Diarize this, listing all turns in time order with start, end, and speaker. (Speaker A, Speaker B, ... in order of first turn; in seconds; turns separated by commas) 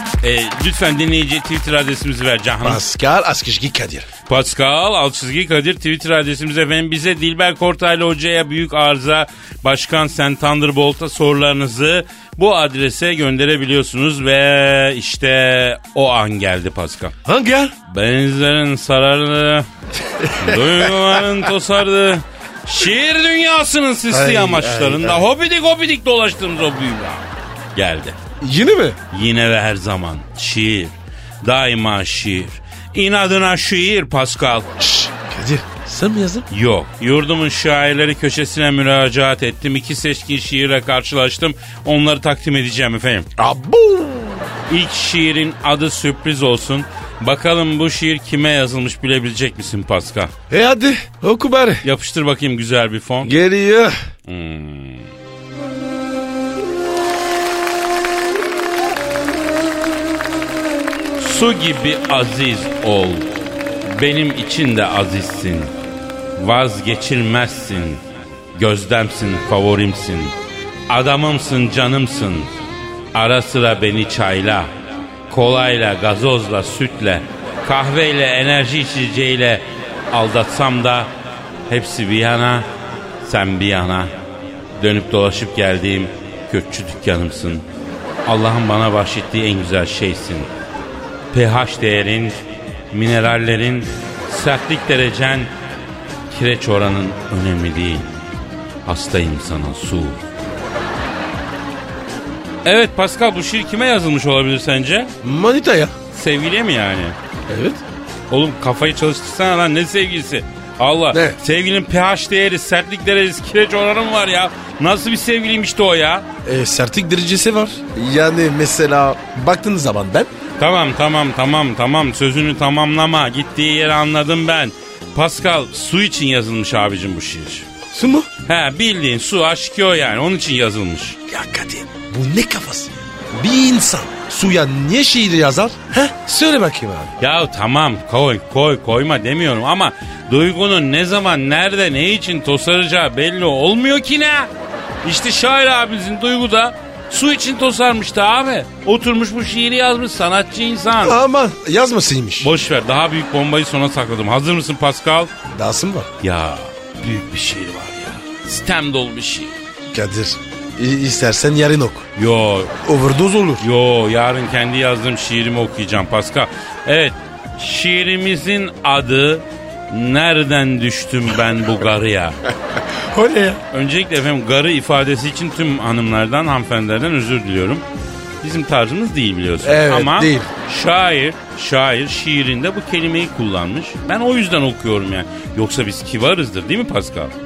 Speaker A: 0.2-2.8, Speaker B: 2.6-4.1, Speaker A: 4.3-17.1, Speaker B: 17.2-17.7, Speaker A: 17.9-19.7, Speaker B: 20.1-20.9, Speaker A: 20.4-27.2, Speaker B: 24.1-25.2, Speaker A: 27.7-28.2, Speaker B: 28.4-29.0, Speaker A: 29.1-34.7, Speaker B: 34.8-36.5, Speaker A: 36.5-43.2, Speaker B: 43.4-44.5, Speaker A: 44.7-50.3, Speaker B: 50.5-51.8, Speaker A: 51.8-53.3, Speaker B: 53.2-53.9, Speaker A: 54.3-55.1, Speaker A: 61.2-63.3, Speaker A: 63.9-65.7, Speaker A: 66.4-68.0, Speaker A: 68.5-70.3, Speaker A: 70.9-72.5, Speaker A: 73.1-74.7, Speaker A: 75.3-81.1, Speaker A: 81.7-82.7, Speaker A: 83.2-84.1, Speaker A: 84.8-87.6, Speaker A: 88.2-90.5, Speaker A: 91.3-92.4, Speaker A: 92.9-95.5, Speaker A: 96.3-98.1, Speaker A: 98.8-100.2, Speaker A: 102.6-105.1, Speaker B: 105.2-105.9, Speaker A: 106.1-107.2, Speaker B: 107.5-107.8, Speaker A: 108.3-116.2, Speaker B: 111.1-111.4, Speaker B: 116.4-120.3, Speaker A: 120.6-127.7, Speaker B: 127.9-128.3, Speaker A: 128.4-131.2, Speaker B: 131.3-137.1, Speaker A: 137.2-144.5, Speaker A: 145.0-151.2, Speaker B: 151.0-152.5, Speaker A: 152.4-155.3, Speaker B: 155.5-156.1, Speaker A: 156.2-159.5, Speaker B: 159.9-162.1, Speaker A: 162.2-162.7, Speaker B: 162.8-163.6, Speaker A: 163.6-172.4, Speaker B: 172.9-173.6, Speaker A: 173.7-177.8, Speaker A: 178.4-187.3, Speaker B: 179.6-180.5